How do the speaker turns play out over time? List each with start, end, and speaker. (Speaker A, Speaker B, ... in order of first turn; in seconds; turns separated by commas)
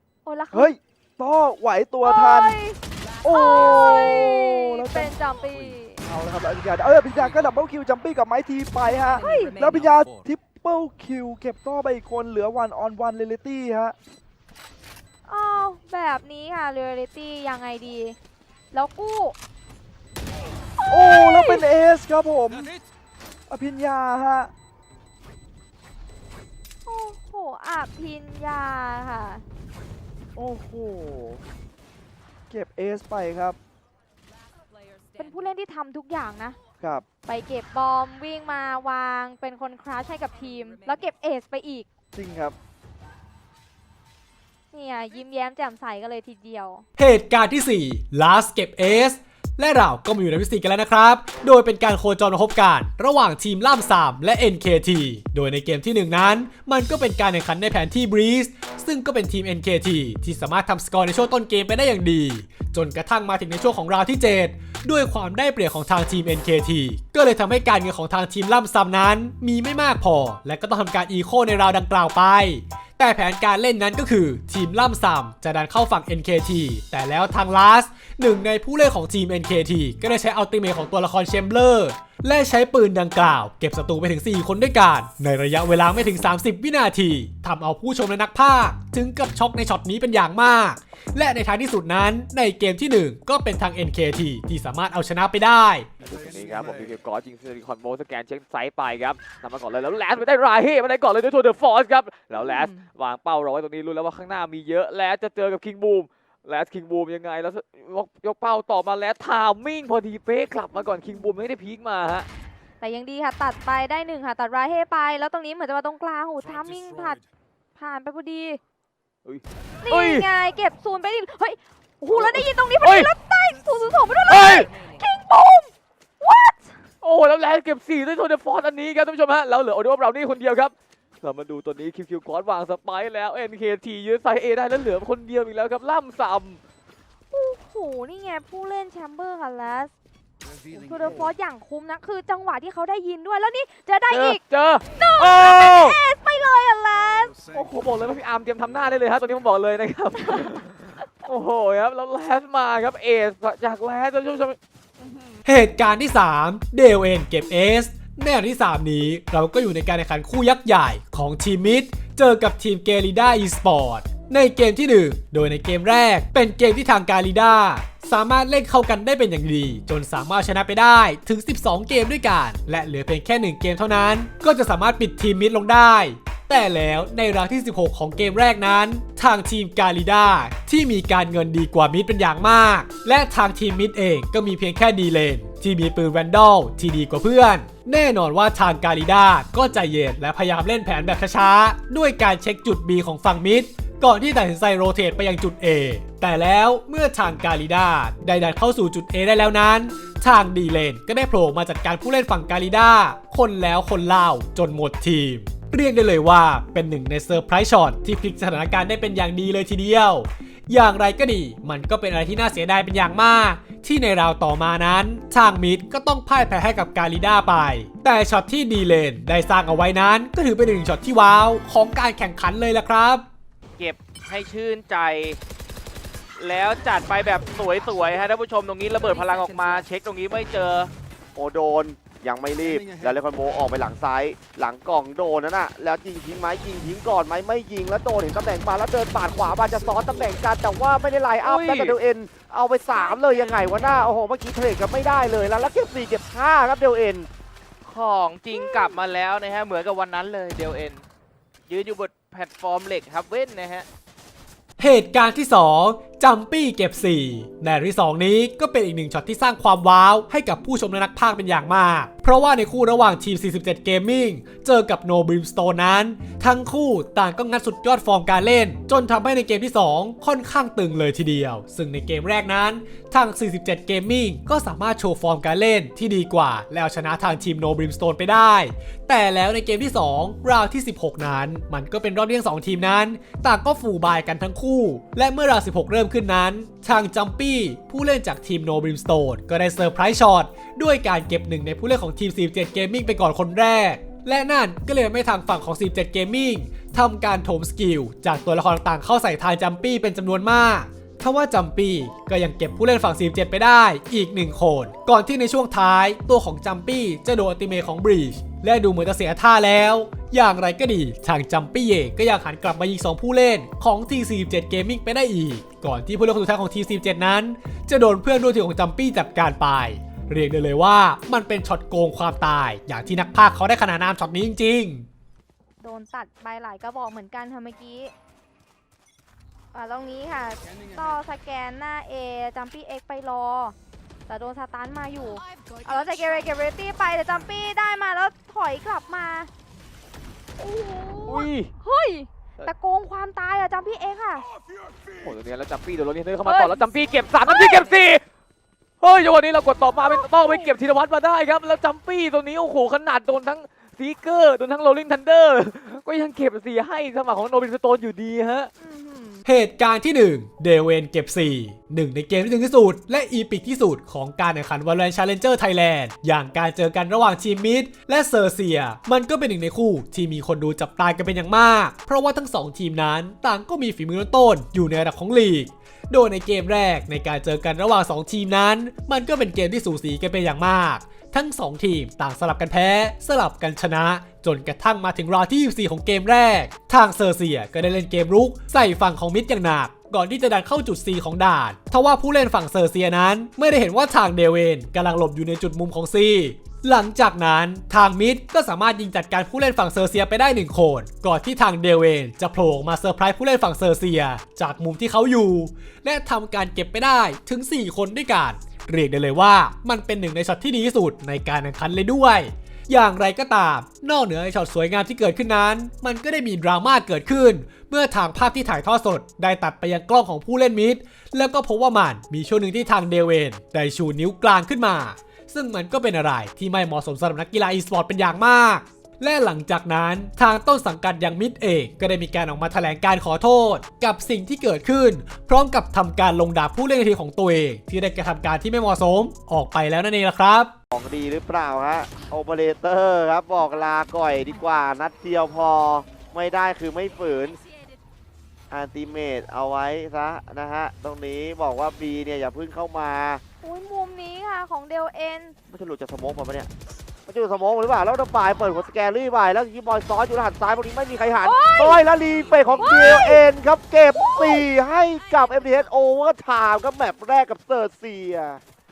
Speaker A: 0.2-0.7, Speaker B: 0.5-2.6, Speaker A: 2.0-6.0, Speaker B: 3.2-5.2, Speaker B: 6.0-13.9, Speaker A: 9.1-9.7, Speaker A: 15.2-18.2, Speaker A: 18.7-19.3, Speaker A: 20.8-21.6, Speaker B: 20.9-22.7, Speaker B: 23.5-24.5, Speaker A: 26.8-29.4, Speaker B: 30.4-31.4, Speaker B: 32.5-33.6, Speaker A: 35.1-36.6, Speaker B: 36.8-37.0, Speaker A: 37.2-41.9, Speaker B: 42.1-42.5, Speaker A: 44.7-46.8, Speaker C: 47.0-95.9, Speaker D: 96.0-112.3, Speaker A: 112.8-118.6, Speaker D: 119.2-120.3, Speaker A: 119.8-126.8, Speaker D: 122.1-123.1, Speaker D: 124.3-124.8, Speaker D: 127.0-136.6, Speaker A: 137.3-139.9, Speaker A: 140.7-144.4, Speaker D: 144.1-146.0, Speaker A: 144.9-147.4, Speaker D: 147.5-154.6, Speaker C: 155.4-223.2, Speaker E: 223.8-225.4, Speaker E: 226.4-230.9, Speaker F: 231.3-247.3, Speaker E: 241.4-242.0, Speaker E: 243.0-244.1, Speaker E: 247.8-251.0, Speaker E: 251.7-253.9, Speaker C: 254.8-325.1, Speaker A: 325.8-328.1, Speaker A: 329.7-333.8, Speaker A: 334.3-339.5, Speaker A: 340.6-344.5, Speaker D: 341.2-341.7, Speaker D: 345.1-348.2, Speaker A: 346.4-346.9, Speaker A: 347.4-347.9, Speaker D: 349.0-358.7, Speaker A: 350.0-350.7, Speaker A: 358.8-359.4, Speaker C: 359.4-440.7, Speaker F: 440.9-447.6, Speaker F: 448.7-453.4, Speaker A: 453.6-455.5, Speaker F: 455.7-456.7, Speaker F: 457.3-468.6, Speaker A: 461.4-462.0, Speaker A: 462.8-463.4, Speaker A: 464.1-464.6